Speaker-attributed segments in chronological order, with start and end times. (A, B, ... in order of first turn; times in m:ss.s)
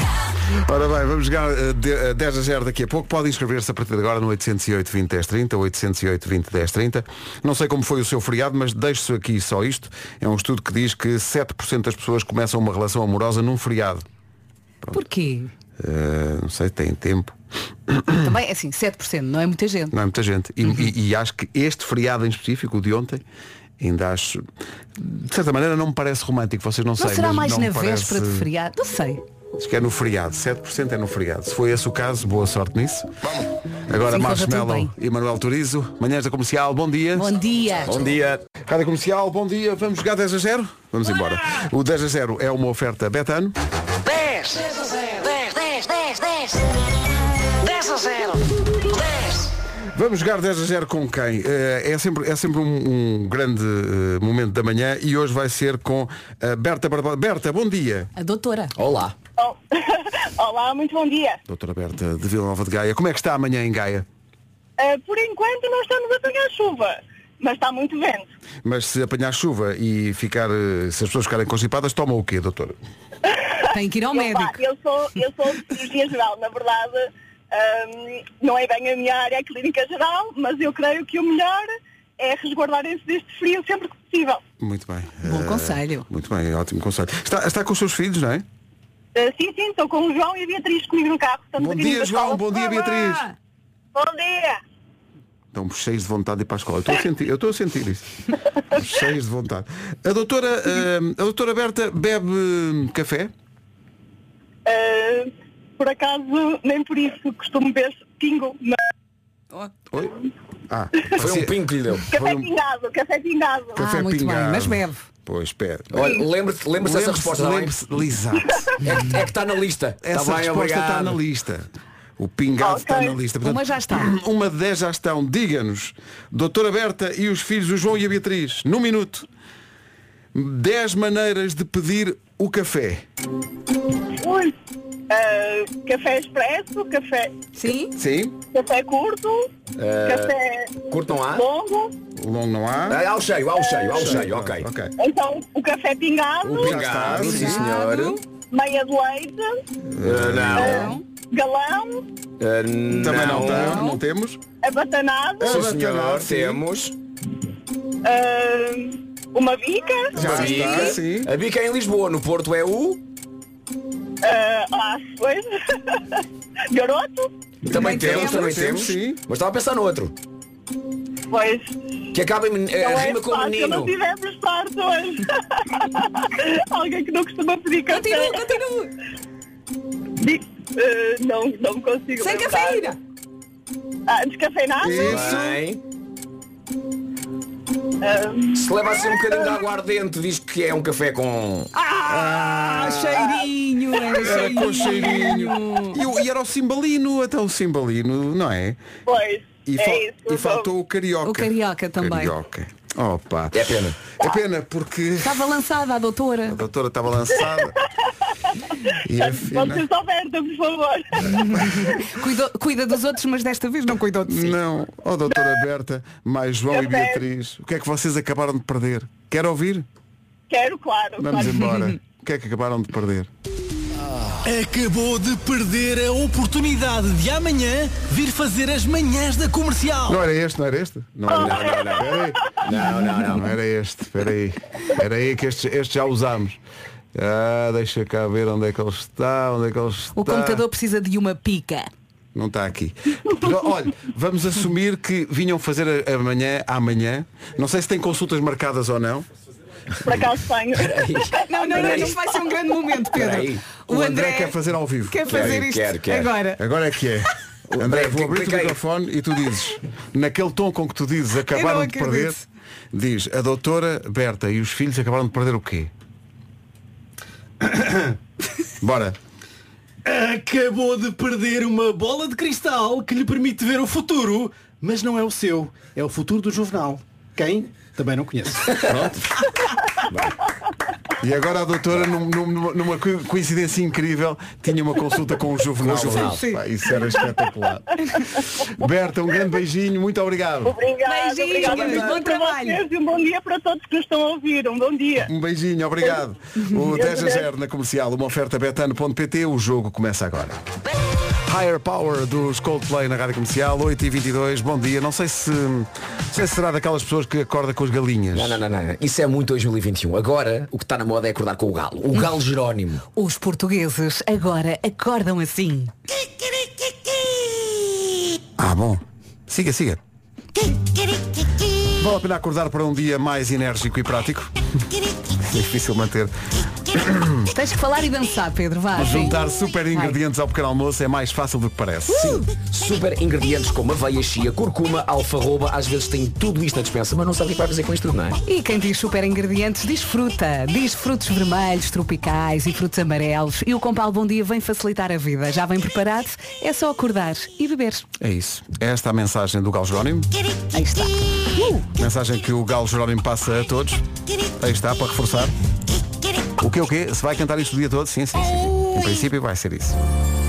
0:00.6-0:14.0 A
0:14.9-0:15.5 B
0:15.8-0:17.4 A
0:17.9-0:18.2 A
0:18.2-0:19.9 B
0:19.9-0:23.2 A
0:23.8-0:24.4 A
0:25.0-0:28.5 A
0:27.0-0:29.2 B
0:29.6-0:33.1 A
0:33.9-0:37.3 A
0:34.0-0:34.9 B
0:37.2-0:38.0 B
0:37.8-0:38.4 C
0:38.7-0:43.6 A
0:44.0-0:46.6 D
0:47.6-0:49.5 D
0:50.0-0:58.1 A
0:58.2-0:58.7 B
0:58.8-0:59.2 C
0:59.4-1:01.4 E
1:01.5-1:04.1 A
1:04.8-1:08.3 E
1:08.6-1:12.8 A
1:13.3-1:24.4 E
1:13.7-1:14.6 B
1:24.6-1:28.4 A
1:25.2-1:26.1 B
1:29.2-1:33.0 E
1:31.6-1:33.3 A
1:33.0-1:33.3 B
1:34.0-1:34.6 E
1:35.5-1:38.1 A
1:38.7-1:43.3 A
1:44.7-1:48.8 E
1:50.7-1:52.5 A
1:51.2-1:52.1 C
1:52.1-1:53.8 E
1:53.8-1:55.0 B
1:53.8-1:56.2 A
1:55.9-1:57.8 C
1:56.8-1:58.8 A
1:58.8-2:01.2 C
2:00.0-2:09.3 A
2:02.6-2:03.2 E
2:03.4-2:04.1 B
2:10.3-2:13.0 A
2:14.2-2:14.6 E
2:15.1-2:17.4 E
2:17.6-2:17.9 B
2:18.0-2:18.4 A
2:18.5-2:19.5 E
2:19.8-2:20.3 C
2:20.0-2:21.9 E
2:20.9-2:21.5 C
2:22.2-2:23.0 A
2:22.9-2:24.7 C
2:23.6-2:24.1 E
2:23.9-2:24.9 A
2:25.0-2:26.9 E
2:26.4-2:28.2 C
2:26.6-2:27.6 A
2:27.2-2:28.2 B
2:28.5-2:29.6 E
2:29.9-2:30.8 A
2:30.0-2:31.0 C
2:30.5-2:32.1 E
2:32.4-2:33.9 C
2:32.9-2:34.4 A
2:33.6-2:34.0 B
2:34.6-2:35.6 E
2:35.4-2:36.6 A
2:35.4-2:37.0 C
2:38.0-2:40.6 E
2:40.2-2:41.3 A
2:40.2-2:43.0 C
2:40.5-2:40.9 B
2:44.2-2:47.3 E
2:47.6-2:50.2 C
2:47.7-2:49.2 A
2:47.8-2:48.5 B
2:51.3-2:51.8 E
2:52.1-2:53.9 C
2:52.8-2:58.6 E
2:57.9-2:58.9 B
3:00.2-3:02.9 E
3:02.2-3:03.0 B
3:04.1-3:05.5 E
3:04.8-3:05.6 A
3:04.9-3:05.8 C
3:08.0-3:09.4 E
3:08.6-3:11.7 C
3:11.8-3:16.0 B
3:12.1-3:13.3 A
3:14.1-3:18.8 A
3:19.1-3:20.7 E
3:19.7-3:25.4 A
3:21.2-3:22.3 B
3:23.5-3:24.0 C
3:25.2-3:26.6 B
3:26.5-3:27.8 A
3:29.0-3:29.8 A
3:29.2-3:31.8 E
3:31.3-3:34.6 B
3:34.3-3:39.9 A
3:36.7-3:37.2 E
3:40.5-3:41.7 E
3:41.2-3:43.3 A
3:41.6-3:42.0 B
3:44.4-3:50.2 F
3:50.1-3:52.6 A
3:51.3-3:52.2 E
3:51.3-3:53.5 C
3:53.3-3:56.6 A
3:57.2-4:00.6 A
4:00.2-4:01.9 B
4:02.4-4:09.3 A
4:10.0-4:12.0 E
4:10.7-4:12.3 C
4:11.4-4:16.6 B
4:13.1-4:13.7 C
4:13.9-4:15.7 A
4:15.3-4:16.4 C
4:16.6-4:22.4 A
4:17.7-4:18.8 C
4:21.5-4:22.4 B
4:22.9-4:25.9 A
4:27.6-4:28.1 F
4:28.8-4:29.2 A
4:30.0-4:38.9 F
4:38.9-4:39.2 A
4:41.2-4:50.8 A
4:45.8-4:46.4 C
4:46.2-4:46.6 B
4:50.7-4:55.3 E
4:51.0-4:52.8 B
4:55.3-5:00.6 A
4:56.6-4:56.9 B
4:56.9-4:57.5 E
5:01.5-5:08.6 A
5:08.3-5:13.0 C
5:13.2-5:15.9 B
5:18.6-5:20.0 A
5:22.0-5:24.5 A
5:25.4-5:26.3 A
5:26.9-5:27.5 A
5:27.5-5:29.4 B
5:28.9-5:32.2 A
5:32.1-5:38.4 C
5:38.5-5:48.1 B
5:48.2-5:50.3 A
5:50.7-5:51.8 B
5:52.0-5:54.0 A
5:54.6-5:55.5 A
5:56.6-6:00.0 A